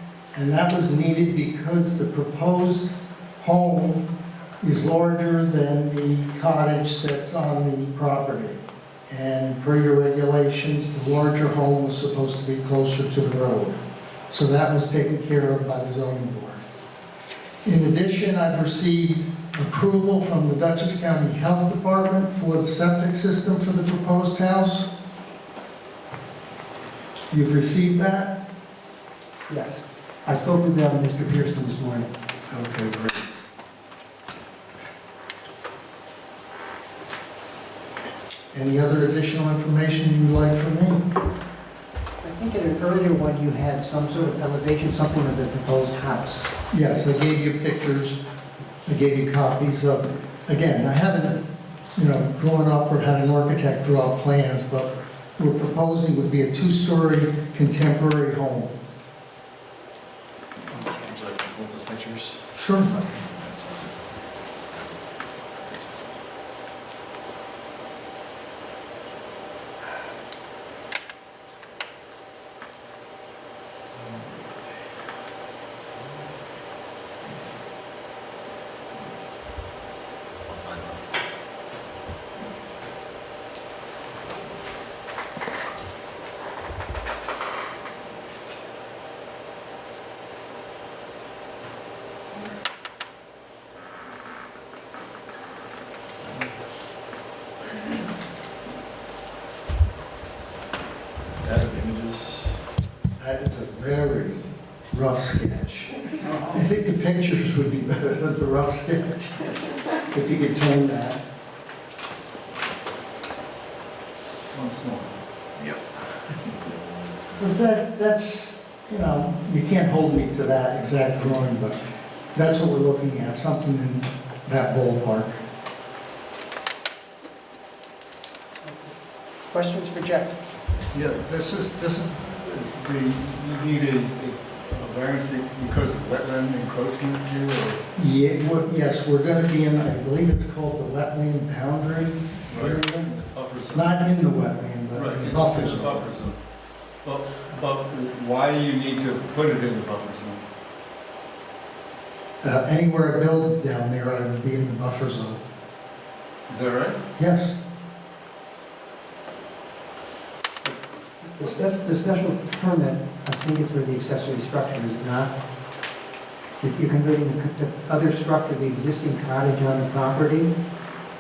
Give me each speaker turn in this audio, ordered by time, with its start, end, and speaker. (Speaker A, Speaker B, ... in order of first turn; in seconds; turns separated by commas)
Speaker A: 0.3-4.1, Speaker A: 4.6-13.8, Speaker A: 14.3-16.6, Speaker A: 17.6-24.9, Speaker A: 27.3-28.4, Speaker B: 29.5-32.1, Speaker A: 32.5-33.4, Speaker A: 38.5-41.1, Speaker B: 42.2-46.5, Speaker A: 46.7-48.2, Speaker A: 48.9-58.8, Speaker C: 60.7-64.0, Speaker A: 62.5-63.0, Speaker C: 64.7-66.1, Speaker C: 73.9-74.3, Speaker C: 75.8-76.3, Speaker C: 80.5-81.1, Speaker C: 101.4-102.6, Speaker A: 103.2-111.2, Speaker D: 114.5-115.1, Speaker C: 115.6-115.8, Speaker A: 117.4-121.8, Speaker A: 122.3-125.4, Speaker B: 128.6-128.9, Speaker B: 129.5-130.4, Speaker D: 130.9-137.8, Speaker A: 137.9-143.1, Speaker D: 142.5-144.1, Speaker A: 143.7-146.1, Speaker D: 144.9-146.4, Speaker D: 147.0-150.4, Speaker A: 152.4-155.4, Speaker D: 156.5-157.0, Speaker A: 157.2-157.6, Speaker B: 160.6-165.3, Speaker B: 166.6-170.5